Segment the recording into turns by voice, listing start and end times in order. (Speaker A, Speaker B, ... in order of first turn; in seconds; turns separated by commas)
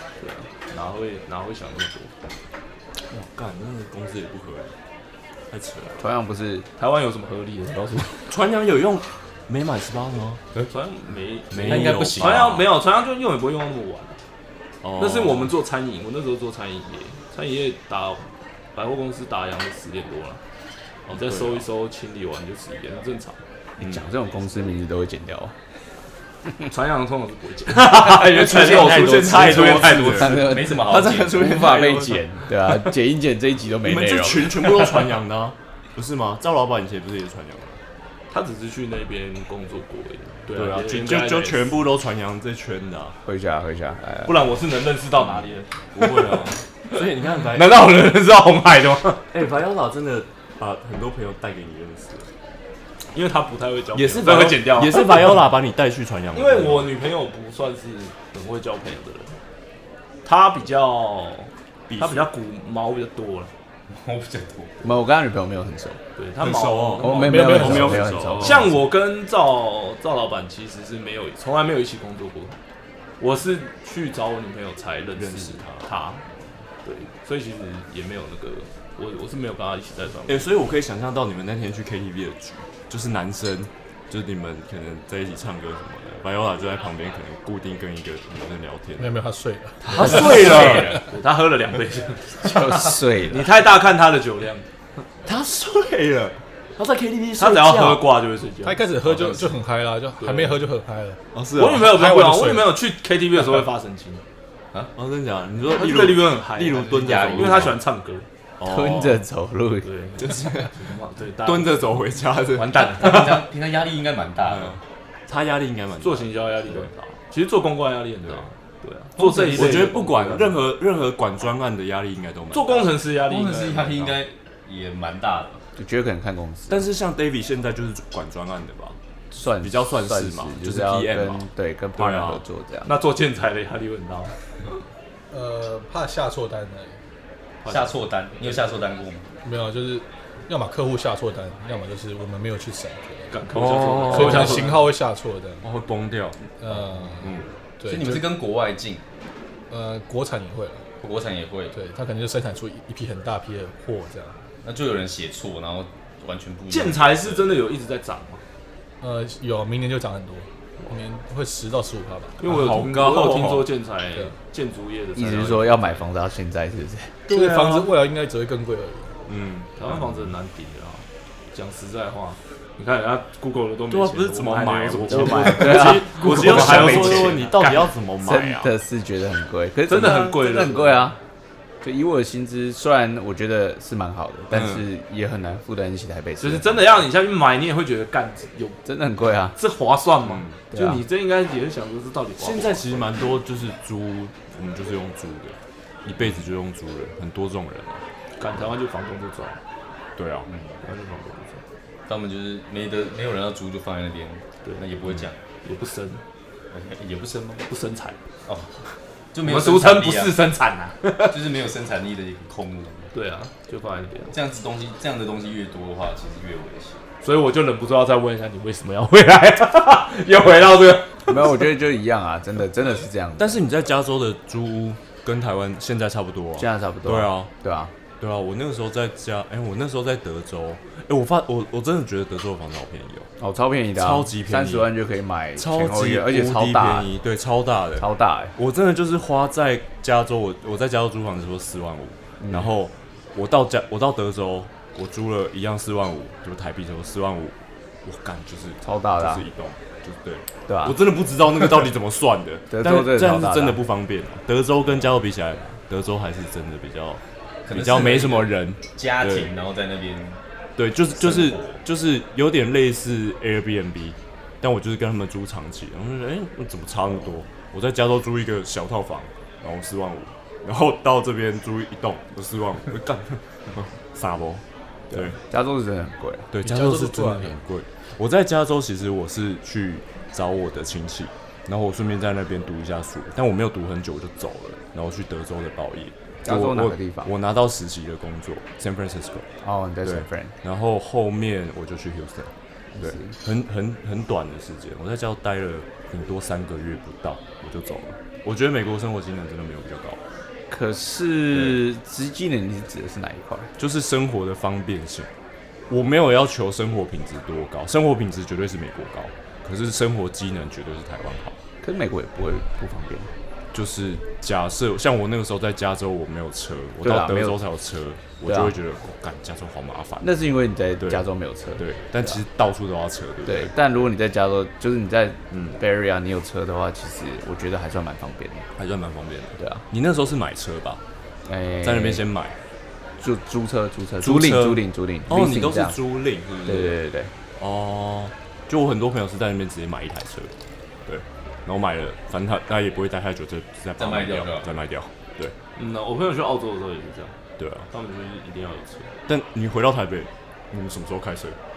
Speaker A: 0.2-2.1, Speaker B: 3.1-4.7, Speaker B: 5.5-6.0, Speaker C: 6.0-6.7, Speaker A: 6.8-8.2, Speaker B: 8.3-10.4, Speaker A: 10.7-14.2, Speaker B: 11.5-12.7, Speaker D: 11.5-12.7, Speaker B: 14.8-15.5, Speaker A: 15.0-20.4, Speaker B: 21.1-21.6, Speaker A: 21.1-23.4, Speaker C: 23.8-25.5, Speaker B: 23.8-24.1, Speaker A: 26.6-30.4, Speaker B: 27.9-32.3, Speaker C: 30.1-34.7, Speaker D: 30.2-31.5, Speaker B: 33.8-37.8, Speaker A: 38.3-41.8, Speaker B: 40.5-43.1, Speaker C: 43.2-44.3, Speaker A: 44.2-46.3, Speaker B: 45.9-47.8, Speaker A: 47.5-49.2, Speaker B: 49.3-52.3, Speaker A: 53.1-55.4, Speaker B: 53.9-56.9, Speaker A: 56.3-59.3, Speaker A: 60.2-63.5, Speaker B: 61.9-62.3, Speaker D: 63.9-64.8, Speaker C: 64.8-66.0, Speaker A: 66.2-67.8, Speaker B: 66.4-68.8, Speaker C: 67.0-68.7, Speaker E: 67.2-68.1, Speaker A: 68.4-72.5, Speaker A: 73.2-76.2, Speaker B: 75.2-75.9, Speaker A: 76.8-80.5, Speaker B: 80.3-89.2, Speaker E: 89.0-90.5, Speaker B: 89.8-91.0, Speaker A: 90.0-94.7, Speaker D: 90.5-91.0, Speaker C: 92.4-93.5, Speaker B: 95.2-98.0, Speaker A: 97.3-98.9, Speaker E: 98.6-102.8, Speaker A: 100.2-100.6, Speaker B: 101.3-102.0, Speaker A: 101.5-104.2, Speaker B: 105.0-107.8, Speaker A: 105.7-108.2, Speaker D: 106.9-107.8, Speaker B: 108.6-109.2, Speaker C: 108.6-109.9, Speaker A: 109.8-112.0, Speaker B: 110.2-110.7, Speaker B: 111.4-113.0, Speaker A: 112.5-113.4, Speaker D: 112.9-114.8, Speaker B: 114.5-116.9, Speaker A: 116.0-120.6, Speaker D: 119.2-120.1, Speaker B: 119.5-122.9, Speaker A: 122.5-124.2, Speaker D: 123.2-125.6, Speaker C: 125.8-126.8, Speaker B: 126.7-129.0, Speaker C: 129.3-132.9, Speaker B: 129.6-132.4, Speaker A: 132.8-134.3, Speaker E: 135.3-136.9, Speaker A: 137.6-138.6, Speaker D: 137.6-139.2, Speaker E: 139.4-143.4, Speaker A: 143.3-144.8, Speaker B: 143.5-144.9, Speaker E: 144.1-145.6, Speaker B: 145.6-146.4, Speaker E: 146.6-148.3, Speaker B: 147.2-147.5, Speaker D: 147.8-149.0, Speaker E: 149.7-150.8, Speaker D: 151.0-151.7, Speaker E: 151.7-154.4, Speaker D: 154.6-157.6, Speaker A: 156.7-158.4, Speaker E: 159.0-162.4, Speaker A: 162.4-166.0, Speaker B: 162.4-163.7, Speaker C: 165.1-167.2, Speaker E: 167.3-169.1, Speaker A: 167.3-167.9, Speaker B: 169.3-169.7, Speaker A: 169.8-177.9, Speaker B: 173.9-178.7, Speaker C: 175.1-177.3, Speaker C: 178.2-181.2, Speaker A: 179.9-181.1, Speaker C: 181.8-186.9, Speaker B: 184.5-184.8, Speaker A: 186.4-188.8, Speaker C: 188.8-189.6, Speaker A: 189.6-193.1, Speaker B: 190.2-190.6, Speaker C: 190.7-191.0, Speaker B: 192.4-198.0, Speaker A: 198.4-199.6, Speaker B: 200.2-200.5, Speaker D: 200.5-200.8, Speaker A: 200.8-201.6, Speaker D: 202.1-205.4, Speaker A: 205.6-206.2, Speaker D: 206.7-207.7, Speaker A: 207.7-208.2, Speaker D: 208.5-208.7, Speaker D: 209.3-210.4, Speaker A: 209.4-211.3, Speaker D: 211.2-213.1, Speaker A: 213.1-214.3, Speaker D: 214.3-217.0, Speaker A: 217.2-221.3, Speaker C: 221.3-223.6, Speaker B: 223.4-227.5, Speaker C: 226.6-227.9, Speaker B: 228.2-233.3, Speaker C: 233.4-237.1, Speaker B: 233.9-234.9, Speaker B: 235.6-259.5, Speaker C: 238.0-238.5, Speaker C: 242.4-242.7, Speaker C: 248.8-249.4, Speaker C: 250.7-251.0, Speaker C: 252.7-253.8, Speaker D: 257.7-260.4, Speaker B: 260.8-275.4, Speaker D: 261.1-261.8, Speaker C: 275.1-276.5, Speaker B: 276.5-289.5, Speaker E: 276.6-277.6, Speaker C: 286.4-287.3, Speaker C: 289.6-290.5, Speaker B: 290.0-300.2, Speaker C: 292.9-293.3, Speaker C: 300.7-303.7, Speaker B: 301.5-301.8, Speaker B: 303.8-305.3, Speaker B: 305.9-311.6, Speaker C: 311.8-313.3, Speaker B: 313.7-320.4, Speaker C: 317.0-317.6, Speaker C: 318.5-318.7, Speaker C: 320.2-322.4, Speaker B: 321.0-321.2, Speaker B: 321.8-323.7, Speaker C: 323.4-328.6, Speaker B: 325.5-325.8, Speaker B: 328.8-331.0, Speaker C: 331.5-332.2, Speaker B: 331.8-332.5, Speaker C: 333.2-336.0, Speaker B: 334.2-336.9, Speaker C: 336.6-337.3, Speaker B: 337.6-340.5, Speaker B: 341.1-345.5, Speaker D: 344.0-344.7, Speaker A: 345.8-347.3, Speaker B: 347.6-347.9, Speaker A: 347.9-349.1, Speaker B: 349.3-351.6